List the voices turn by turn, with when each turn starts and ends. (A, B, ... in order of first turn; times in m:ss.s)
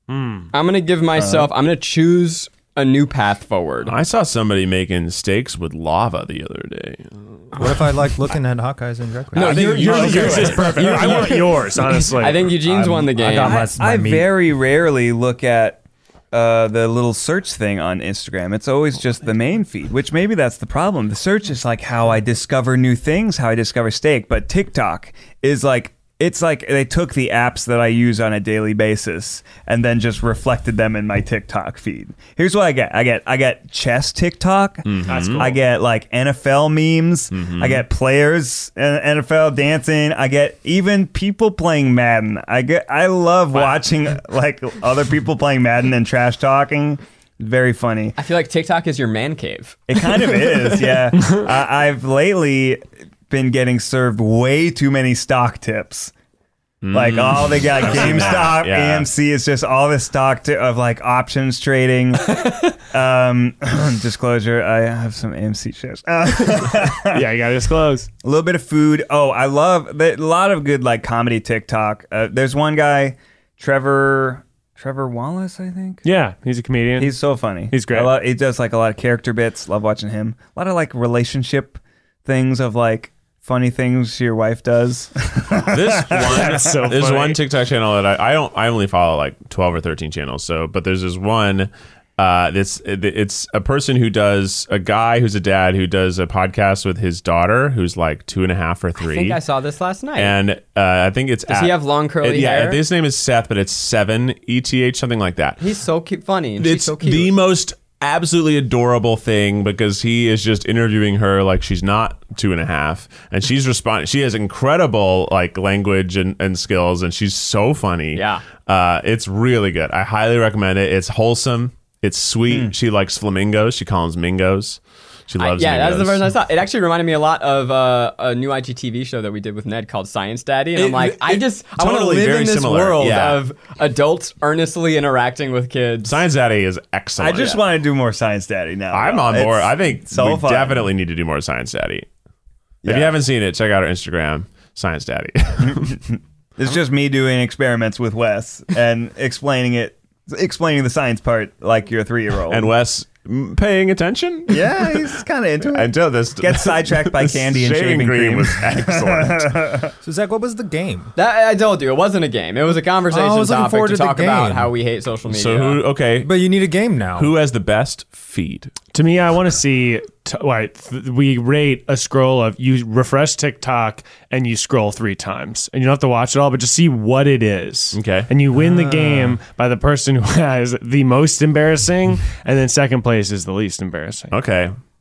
0:00.1-0:00.5 A
0:00.5-0:03.9 B
0:01.2-0:01.5 C
0:03.9-0:07.7 D
0:07.6-0:11.4 E
0:09.3-0:13.7 B
0:09.4-0:10.8 D
0:09.4-0:12.6 A
0:12.5-0:14.3 E
0:13.4-0:48.2 C
0:34.9-0:35.5 D
0:35.1-0:35.6 A
0:37.3-0:37.8 D
0:48.2-0:49.8 B
0:49.9-0:56.1 C
0:56.8-0:59.1 D
0:56.9-1:07.2 C
0:57.9-0:58.3 A
1:07.1-1:08.1 A
1:08.2-1:16.0 C
1:16.0-1:17.1 A
1:17.0-1:26.4 C
1:17.7-1:18.1 A
1:25.7-1:39.4 D
1:26.2-1:27.4 A
1:39.0-1:40.4 B
1:40.2-1:45.6 D
1:41.5-1:42.8 B
1:45.6-1:47.4 B
1:46.6-2:06.3 D
1:58.1-1:58.4 B
2:02.5-2:02.7 C
2:05.4-2:16.2 B
2:10.8-2:13.4 D
2:16.0-2:17.6 D
2:17.2-2:20.9 C
2:18.9-2:22.1 D
2:22.8-2:23.2 C
2:22.8-2:26.0 D
2:25.6-2:32.7 C
2:32.5-2:35.2 D
2:34.5-2:39.9 C
2:35.7-2:39.5 D
2:40.0-2:41.1 E
2:41.2-2:45.8 B
2:43.1-2:44.7 E
2:45.3-2:46.5 D
2:46.2-2:47.3 E
2:47.2-2:48.7 D
2:48.9-3:04.3 A
2:57.9-2:58.3 D
2:58.5-2:59.4 E
3:04.3-3:04.8 D